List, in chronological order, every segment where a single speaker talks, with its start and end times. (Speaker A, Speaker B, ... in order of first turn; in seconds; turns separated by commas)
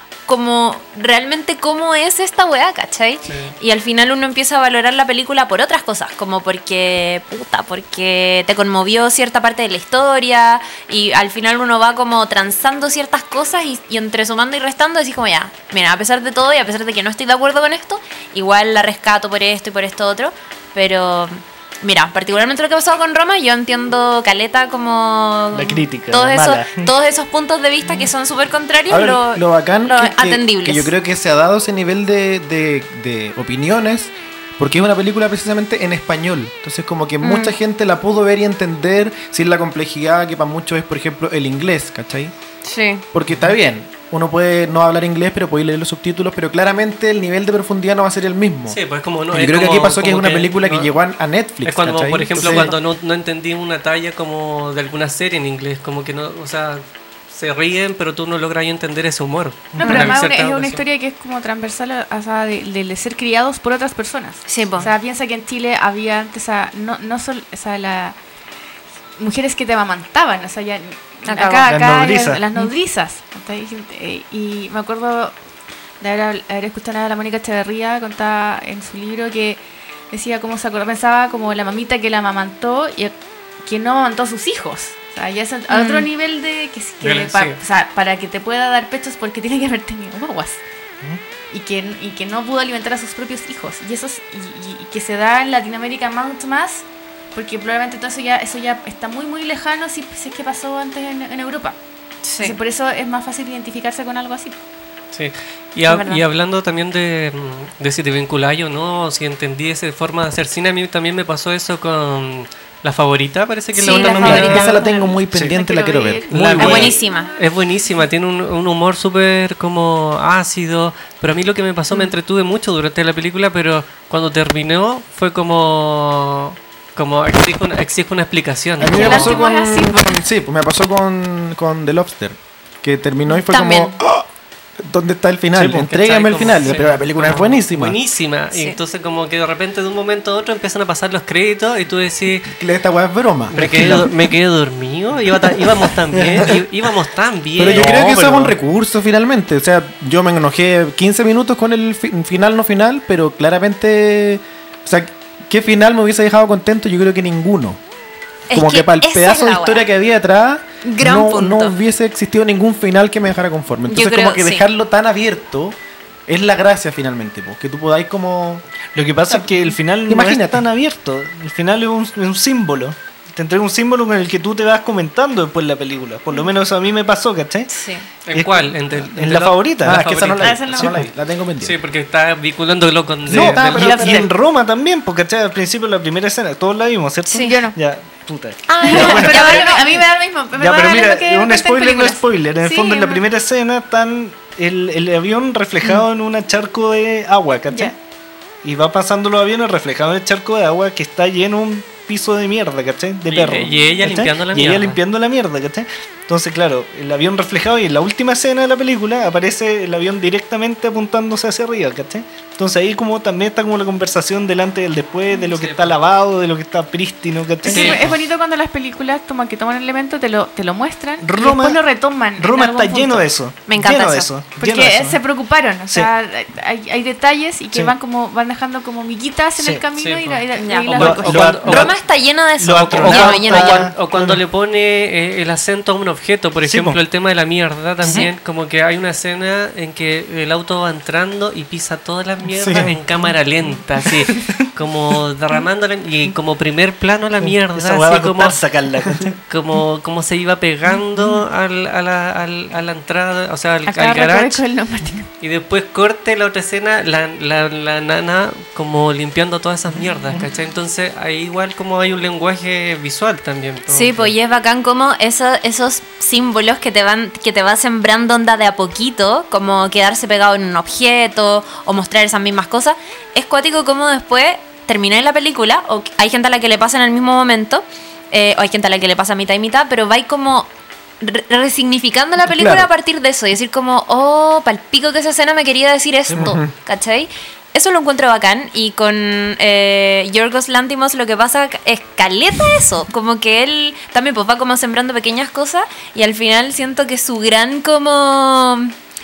Speaker A: 0.3-30.9, Speaker B: 3.2-3.5, Speaker C: 25.5-26.9, Speaker D: 28.9-42.3, Speaker A: 37.2-37.5, Speaker A: 42.6-43.0, Speaker D: 43.1-48.8, Speaker B: 48.7-50.9, Speaker D: 49.3-52.8, Speaker B: 51.6-60.8, Speaker E: 59.7-68.2, Speaker A: 59.8-60.1, Speaker A: 64.5-64.9, Speaker E: 69.2-75.3, Speaker A: 71.3-71.7, Speaker C: 71.7-72.4, Speaker E: 76.0-90.6, Speaker A: 85.7-86.1, Speaker B: 87.0-87.6, Speaker E: 91.5-101.8, Speaker A: 102.2-102.5, Speaker E: 102.4-104.5, Speaker B: 105.1-114.8, Speaker A: 105.9-106.2, Speaker A: 113.7-114.7, Speaker D: 114.0-116.9, Speaker E: 114.3-116.4, Speaker B: 116.3-129.4, Speaker A: 116.5-117.3, Speaker E: 128.8-130.2, Speaker D: 128.8-134.2, Speaker A: 133.3-133.9, Speaker D: 134.8-138.0, Speaker B: 135.5-142.5, Speaker A: 138.5-138.8, Speaker D: 142.5-144.1, Speaker B: 143.5-148.2, Speaker D: 146.1-146.6, Speaker D: 147.6-157.8, Speaker C: 147.7-148.5, Speaker A: 158.5-159.8, Speaker D: 158.5-165.8, Speaker A: 160.9-161.7, Speaker A: 163.9-164.6, Speaker D: 166.3-168.6, Speaker C: 168.9-177.7, Speaker D: 169.3-170.6, Speaker A: 177.7-178.1, Speaker B: 178.2-184.1, Speaker C: 178.3-181.1, Speaker D: 179.8-181.8, Speaker E: 180.4-180.9, Speaker D: 183.3-184.3, Speaker C: 183.3-190.0, Speaker A: 187.3-187.5, Speaker E: 187.4-187.8, Speaker E: 188.7-193.2, Speaker A: 188.8-189.9, Speaker C: 190.6-197.9, Speaker E: 197.7-197.9, Speaker C: 198.6-218.1, Speaker B: 203.3-205.0, Speaker B: 215.4-215.9, Speaker E: 217.6-223.4, Speaker B: 217.7-218.2, Speaker C: 221.2-221.8, Speaker C: 222.3-225.2, Speaker A: 223.7-224.3, Speaker E: 224.6-231.6, Speaker B: 230.0-231.9, Speaker A: 230.6-233.9, Speaker C: 230.9-234.4, Speaker B: 233.0-248.6, Speaker C: 236.6-237.0, Speaker A: 238.0-238.3, Speaker D: 242.6-242.9, Speaker C: 247.4-249.3, Speaker B: 249.4-254.6, Speaker E: 253.9-255.3, Speaker B: 255.4-264.3, Speaker A: 263.9-280.7, Speaker A: 281.2-298.9, Speaker D: 282.5-282.9, Speaker C: 286.3-286.6, Speaker D: 286.4-286.7